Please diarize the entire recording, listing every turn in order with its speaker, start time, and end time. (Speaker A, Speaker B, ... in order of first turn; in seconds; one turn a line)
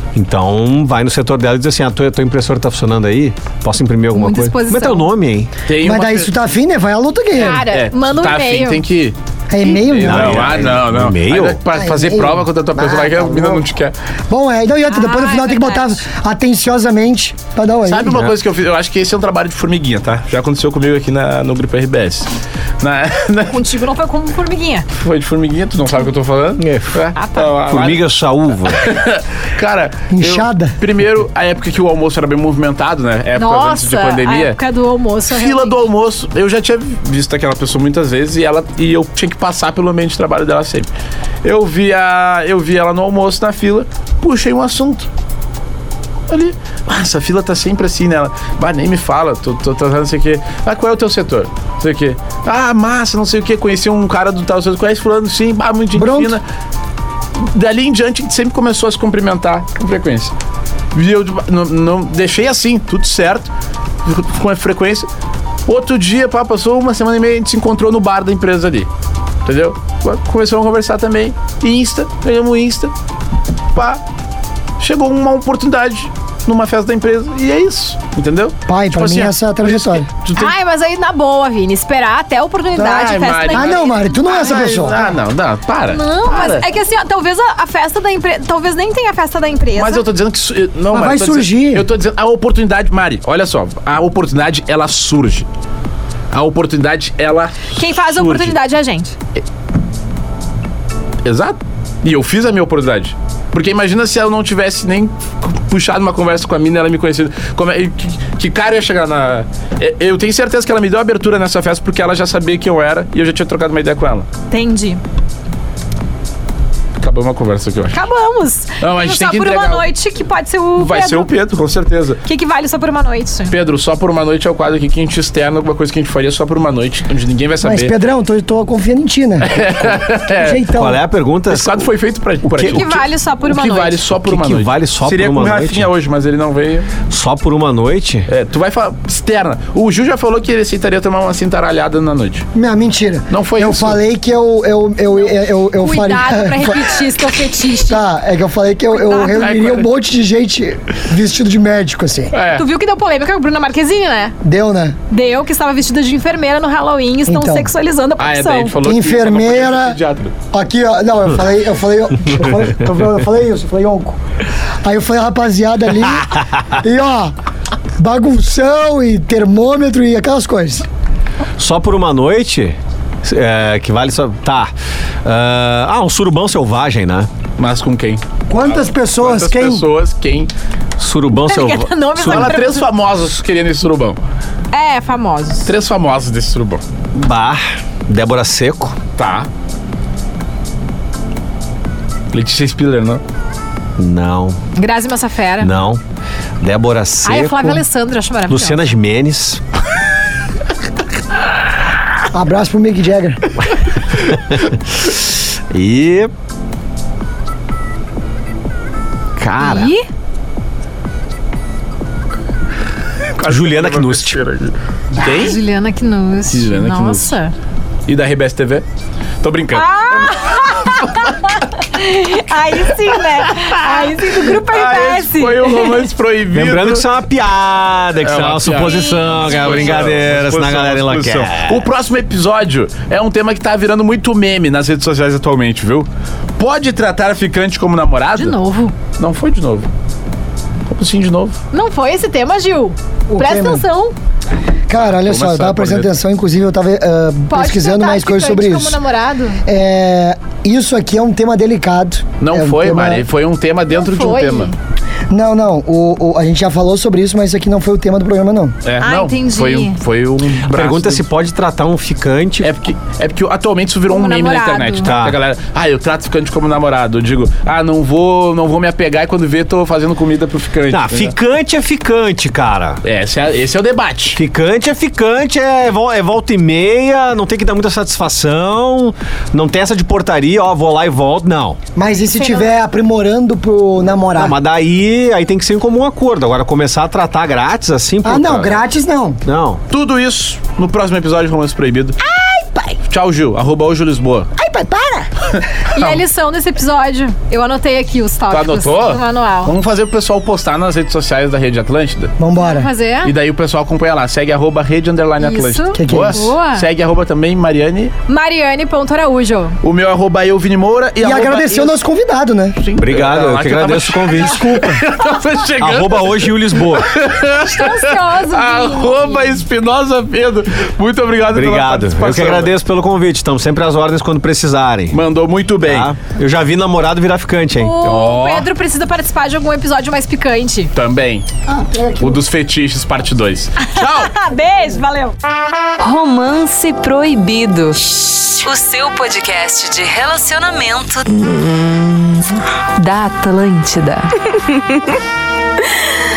Speaker A: 0.1-5.5
Speaker B: 4.1-5.1
Speaker C: 5.7-6.3
Speaker D: 5.8-7.6
Speaker B: 7.3-8.8
Speaker C: 7.4-13.9
Speaker D: 9.5-10.8
Speaker A: 10.0-11.6
Speaker D: 11.7-13.6
Speaker D: 14.3-18.2
Speaker B: 14.9-16.0
Speaker C: 17.9-22.3
Speaker A: 18.1-18.4
Speaker C: 22.8-23.6
Speaker B: 23.5-24.9
Speaker C: 24.9-28.0
Speaker A: 26.6-27.0
Speaker B: 27.1-27.6
Speaker A: 27.7-28.9
Speaker C: 28.7-34.6
Speaker D: 30.1-30.7
Speaker B: 33.4-35.8
Speaker C: 35.3-40.9
Speaker C: 41.4-45.1
Speaker C: 46.3-56.4
Speaker D: 56.0-56.4
Speaker C: 57.4-60.3
Speaker C: 60.9-63.5
Speaker C: 64.0-65.1
Speaker C: 65.7-68.9
Speaker C: 69.5-72.9
Speaker C: 73.8-74.0
Speaker C: 74.8-80.5
Speaker D: 78.7-80.1
Speaker B: 80.3-85.0
Speaker D: 82.8-85.2
Speaker C: 82.8-86.7
Speaker B: 85.9-90.1
Speaker C: 89.8-95.5
Speaker D: 90.9-91.9
Speaker C: 96.3-98.5
Speaker B: 97.7-99.2
Speaker C: 101.2-114.3
Speaker B: 114.5-115.0
Speaker C: 117.0-118.0
Speaker B: 117.9-121.3
Speaker C: 118.8-119.8
Speaker C: 120.8-122.2
Speaker B: 122.2-123.5
Speaker C: 123.5-127.9
Speaker D: 127.6-131.0
Speaker C: 129.4-130.7
Speaker A: 130.7-131.9
Speaker C: 131.5-136.9
Speaker A: 132.4-133.0
Speaker B: 132.7-134.0
Speaker A: 134.2-135.9
Speaker A: 137.1-138.3
Speaker C: 138.3-142.5
Speaker D: 142.6-146.9
Speaker C: 143.3-144.0
Speaker B: 145.8-148.1
Speaker D: 147.9-152.3
Speaker B: 148.9-149.5
Speaker C: 149.2-149.9
Speaker C: 152.3-152.7
Speaker B: 152.5-154.4
Speaker D: 154.4-155.0
Speaker B: 155.1-158.8
Speaker D: 157.3-157.7
Speaker C: 158.2-160.3
Speaker D: 158.8-160.0
Speaker D: 160.5-164.2
Speaker D: 164.8-167.3
Speaker D: 168.0-170.9
Speaker A: 171.6-174.7
Speaker A: 175.2-177.3
Speaker C: 177.6-180.5
Speaker D: 178.5-179.8
Speaker A: 181.0-182.6
Speaker B: 181.4-182.9
Speaker C: 182.2-184.2
Speaker B: 184.7-185.7
Speaker C: 185.7-186.8
Speaker A: 187.2-189.0
Speaker C: 189.2-189.5
Speaker C: 192.3-193.2
Speaker A: 194.0-194.6
Speaker B: 194.8-195.7
Speaker A: 195.6-196.0
Speaker A: 196.6-197.8
Speaker B: 197.2-198.8
Speaker A: 198.5-199.6
Speaker D: 202.3-203.4
Speaker A: 204.3-206.3
Speaker A: 209.4-209.9
Speaker B: 209.6-210.1
Speaker C: 213.4-215.6
Speaker A: 213.5-214.4
Speaker B: 215.2-217.5
Speaker C: 216.5-217.3
Speaker C: 218.1-218.8
Speaker C: 219.4-221.3
Speaker B: 219.7-226.1
Speaker C: 223.4-227.1
Speaker A: 226.6-231.9
Speaker C: 228.2-238.6
Speaker B: 228.8-230.0
Speaker B: 238.4-239.0
Speaker C: 239.1-239.9
Speaker C: 240.9-241.6
Speaker B: 241.7-244.1
Speaker D: 243.3-243.8
Speaker D: 244.9-249.0
Speaker C: 244.9-246.1
Speaker B: 247.5-249.6
Speaker D: 249.7-253.2
Speaker C: 252.4-254.7
Speaker B: 253.9-254.8
Speaker D: 255.3-258.8
Speaker C: 258.8-261.2
Speaker B: 259.0-260.0
Speaker A: 260.7-262.7
Speaker C: 262.6-271.4
Speaker B: 264.1-265.1
Speaker A: 265.0-265.4
Speaker A: 270.9-273.0
Speaker C: 273.0-274.4
Speaker A: 274.4-281.8
Speaker D: 282.0-284.6
Speaker B: 282.4-282.7
Speaker A: 284.4-288.9
Speaker D: 288.2-289.4
Speaker A: 289.4-289.8
Speaker C: 289.9-292.2
Speaker D: 292.2-293.0
Speaker C: 293.1-294.5
Speaker D: 294.6-295.5
Speaker B: 295.9-299.7
Speaker C: 298.5-302.4
Speaker D: 302.4-302.9
Speaker B: 302.6-303.4
Speaker C: 303.2-308.1
Speaker B: 305.4-306.9
Speaker D: 305.9-306.5
Speaker B: 308.3-309.8
Speaker C: 309.8-312.0
Speaker D: 311.2-312.8
Speaker C: 312.8-322.7
Speaker A: 313.0-314.8
Speaker D: 314.4-315.0
Speaker A: 315.8-317.1
Speaker B: 317.4-319.6
Speaker A: 321.5-325.2
Speaker C: 325.1-326.1
Speaker A: 325.9-328.0
Speaker B: 327.8-330.9
Speaker C: 328.0-328.7
Speaker C: 330.9-331.5
Speaker D: 331.7-332.4
Speaker C: 332.2-334.3
Speaker B: 333.8-335.4
Speaker E: 336.0-345.1